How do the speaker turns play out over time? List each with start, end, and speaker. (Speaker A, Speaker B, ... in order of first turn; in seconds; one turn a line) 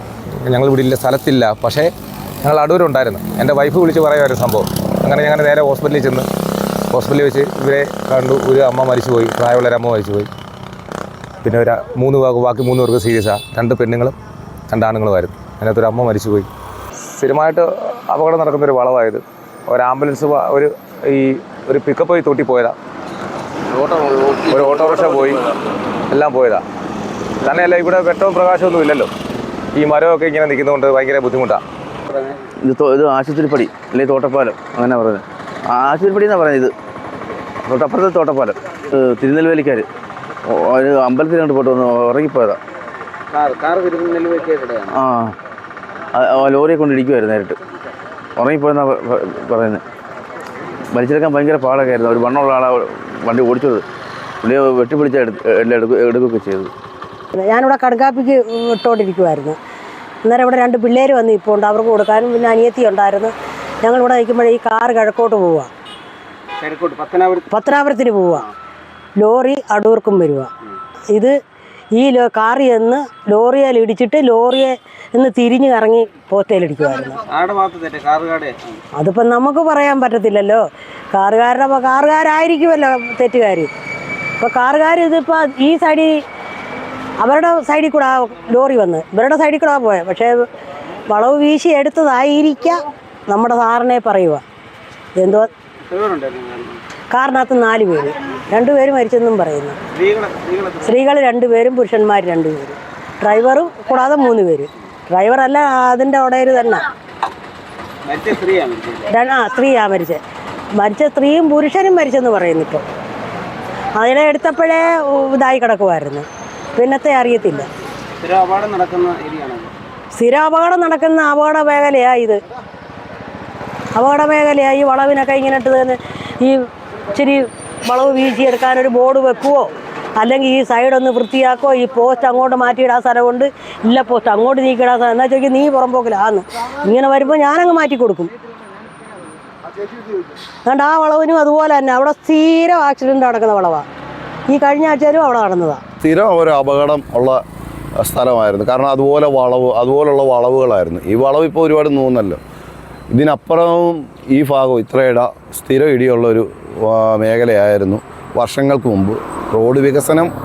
Speaker A: 0.4-1.9
Speaker A: 2.4-6.3
Speaker A: 6.9-10.3
Speaker A: 11.4-14.2
Speaker A: 14.7-16.5
Speaker A: 17.1-22.8
Speaker B: 23.7-25.4
Speaker A: 24.5-25.4
Speaker A: 26.1-26.6
Speaker A: 27.4-29.1
Speaker A: 29.8-31.6
Speaker B: 32.6-36.7
Speaker B: 37.7-39.9
Speaker B: 40.5-42.6
Speaker C: 43.3-44.9
Speaker B: 44.9-45.4
Speaker B: 46.1-47.6
Speaker B: 48.4-49.8
Speaker B: 50.9-53.9
Speaker B: 54.4-56.7
Speaker D: 57.3-59.6
Speaker D: 60.2-65.7
Speaker C: 66.6-67.5
Speaker D: 67.5-68.5
Speaker D: 69.2-70.5
Speaker D: 71.9-77.2
Speaker C: 77.3-78.8
Speaker D: 79.0-83.7
Speaker D: 84.4-86.2
Speaker D: 87.2-90.4
Speaker D: 91.1-94.4
Speaker D: 95.2-95.5
Speaker C: 95.9-96.8
Speaker D: 97.1-99.8
Speaker C: 99.9-101.0
Speaker D: 100.8-106.9
Speaker C: 108.1-109.1
Speaker D: 109.1-110.2
Speaker D: 110.8-112.8
Speaker D: 114.0-117.7
Speaker C: 118.2-119.7
Speaker D: 120.1-122.4
Speaker D: 124.0-138.3
Speaker D: 140.7-143.9
Speaker D: 144.5-145.8
Speaker E: 146.0-147.4
Speaker E: 148.0-152.4
Speaker E: 153.1-160.3